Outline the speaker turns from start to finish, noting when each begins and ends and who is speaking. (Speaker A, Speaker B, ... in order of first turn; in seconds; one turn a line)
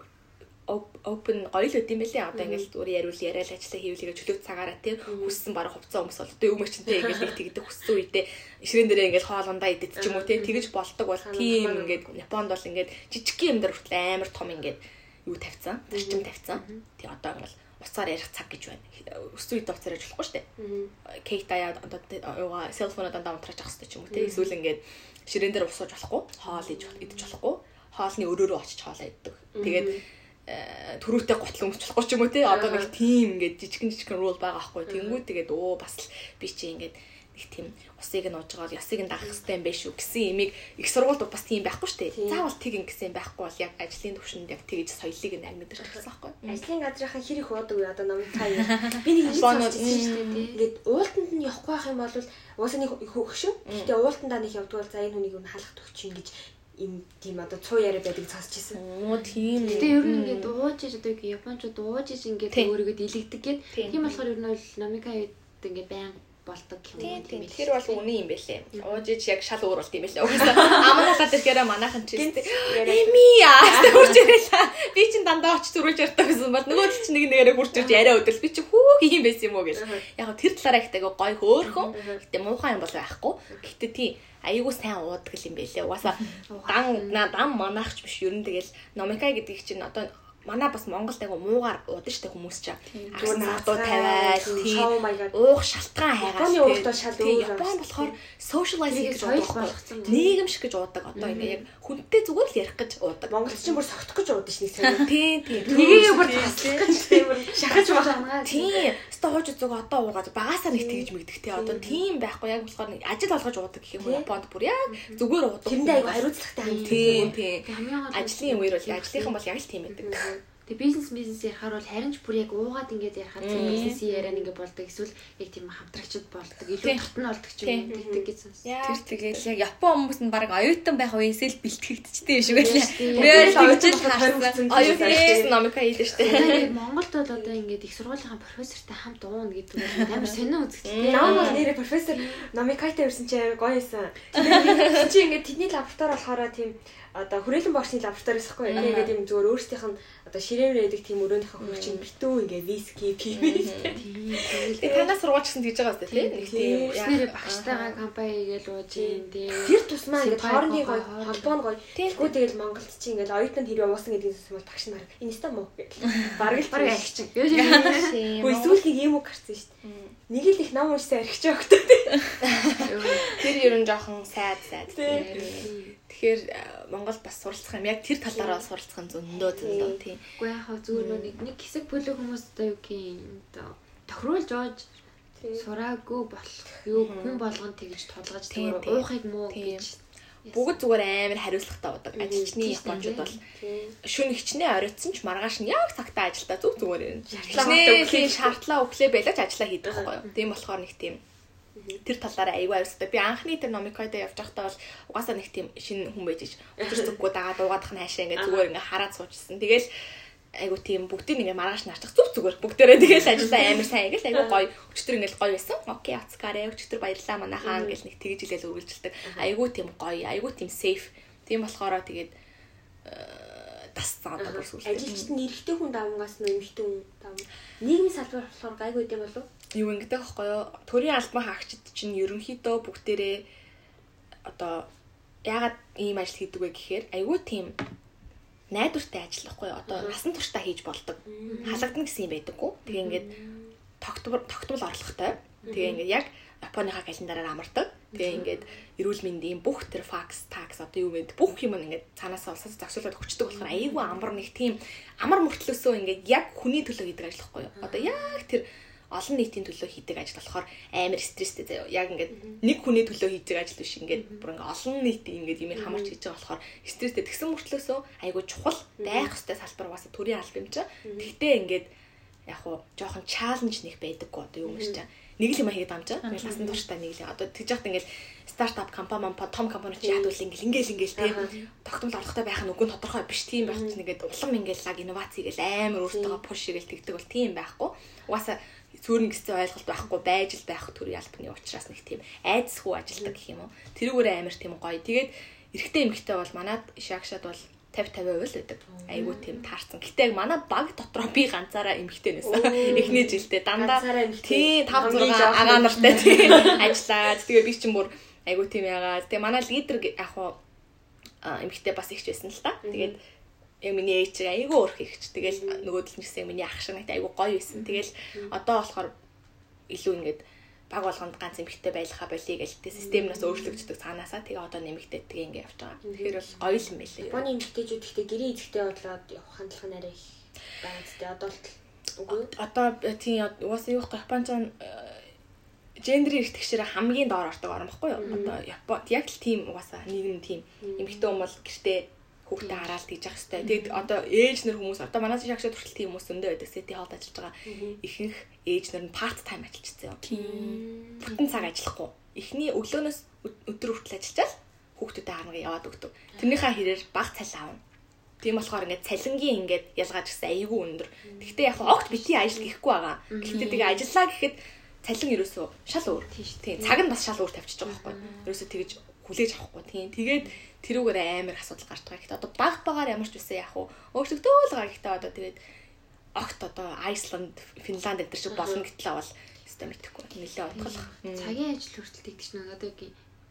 Speaker A: 0.7-20.5
Speaker B: 2.3-2.7
Speaker B: 5.1-5.4
Speaker B: 10.0-10.7
Speaker B: 11.2-12.0
Speaker B: 15.9-16.3
Speaker B: 20.6-20.9
Speaker A: 21.1-46.6
Speaker B: 24.1-24.5
Speaker B: 26.5-27.3
Speaker B: 29.6-30.0
Speaker B: 32.5-32.9
Speaker B: 34.9-35.2
Speaker B: 42.1-42.5
Speaker B: 45.8-58.8
Speaker C: 49.2-50.6
Speaker A: 49.2-50.5
Speaker A: 53.7-53.9
Speaker A: 58.7-60.5
Speaker B: 59.5-59.9
Speaker C: 59.7-68.0
Speaker A: 63.7-64.1
Speaker A: 67.0-103.4
Speaker B: 70.5-70.8
Speaker B: 72.2-74.3
Speaker B: 79.7-80.0
Speaker B: 81.7-82.2
Speaker C: 86.5-87.2
Speaker B: 93.1-95.3
Speaker B: 96.2-98.2
Speaker C: 98.9-100.4
Speaker B: 101.2-101.6
Speaker C: 101.2-101.6
Speaker B: 103.3-108.3
Speaker A: 104.9-107.2
Speaker C: 105.6-107.0
Speaker D: 106.4-106.8
Speaker C: 107.5-108.8
Speaker A: 108.4-120.2
Speaker B: 110.7-112.0
Speaker B: 114.0-114.3
Speaker C: 114.9-115.2
Speaker B: 115.7-117.4
Speaker C: 116.6-119.4
Speaker C: 119.9-128.7
Speaker B: 120.1-120.4
Speaker A: 123.4-124.0
Speaker D: 123.6-124.0
Speaker B: 123.8-124.5
Speaker A: 126.8-127.1
Speaker A: 127.6-127.9
Speaker B: 127.9-128.3
Speaker A: 128.6-129.5
Speaker D: 128.8-135.4
Speaker C: 132.5-133.7
Speaker B: 132.6-135.5
Speaker A: 133.2-133.6
Speaker A: 134.7-136.7
Speaker B: 136.1-136.7
Speaker C: 136.2-141.7
Speaker A: 140.8-141.7
Speaker B: 141.0-154.0
Speaker C: 148.7-149.1
Speaker A: 148.8-149.1
Speaker A: 151.6-152.1
Speaker A: 153.3-158.0
Speaker C: 154.0-155.1
Speaker B: 154.8-155.1
Speaker C: 156.1-161.6
Speaker B: 156.5-157.0
Speaker B: 158.9-169.7
Speaker A: 162.0-162.4
Speaker C: 166.7-168.2
Speaker A: 167.5-168.8
Speaker A: 169.8-170.2
Speaker B: 170.3-172.3
Speaker C: 172.8-173.5
Speaker A: 173.2-180.2
Speaker B: 174.9-175.7
Speaker C: 175.1-176.0
Speaker B: 179.6-180.0
Speaker C: 179.6-184.9
Speaker A: 180.9-181.3
Speaker B: 185.4-185.7
Speaker C: 185.6-190.8
Speaker A: 186.9-187.5
Speaker A: 188.5-189.9
Speaker A: 190.5-193.4
Speaker B: 192.2-192.6
Speaker C: 192.6-193.3
Speaker D: 192.9-193.1
Speaker B: 193.5-193.9
Speaker A: 194.0-201.2
Speaker B: 197.3-198.6
Speaker C: 197.3-197.6
Speaker B: 201.8-202.0
Speaker A: 202.0-209.9
Speaker B: 206.8-207.2
Speaker B: 208.4-208.7
Speaker A: 210.6-222.3
Speaker B: 217.6-218.0
Speaker A: 223.1-225.3
Speaker B: 224.4-229.5
Speaker A: 229.7-233.5
Speaker A: 234.4-234.9
Speaker A: 235.4-237.8
Speaker A: 238.7-243.3
Speaker B: 239.9-240.2
Speaker B: 241.3-241.9
Speaker C: 241.5-241.9
Speaker B: 242.9-243.7
Speaker A: 244.0-271.9
Speaker B: 245.7-246.0
Speaker B: 248.1-248.6
Speaker B: 253.8-254.1
Speaker B: 257.8-258.2
Speaker B: 265.8-266.1
Speaker B: 269.0-269.3
Speaker B: 271.0-271.3
Speaker A: 272.5-310.6
Speaker B: 274.7-275.0
Speaker B: 276.4-276.8
Speaker B: 280.0-280.3
Speaker B: 281.2-281.5
Speaker B: 283.6-284.0
Speaker B: 286.1-286.4
Speaker B: 298.9-299.4
Speaker B: 302.4-306.9
Speaker A: 311.4-313.2
Speaker B: 312.8-313.2
Speaker A: 313.8-319.1
Speaker B: 315.6-315.8
Speaker B: 317.8-318.5
Speaker A: 319.9-327.5
Speaker B: 323.0-323.8
Speaker B: 326.0-326.4
Speaker B: 327.2-330.3
Speaker B: 330.8-332.5
Speaker A: 332.3-335.3
Speaker A: 336.0-357.8
Speaker B: 338.2-338.6
Speaker B: 340.8-341.3
Speaker C: 343.6-343.9
Speaker B: 347.7-348.0
Speaker D: 350.3-350.8
Speaker B: 350.3-351.2
Speaker A: 358.4-375.6
Speaker B: 361.3-361.7
Speaker C: 361.8-362.2
Speaker C: 363.3-364.1
Speaker C: 366.3-367.0
Speaker C: 367.9-368.5
Speaker A: 376.4-381.6
Speaker B: 378.5-378.9
Speaker C: 380.8-383.1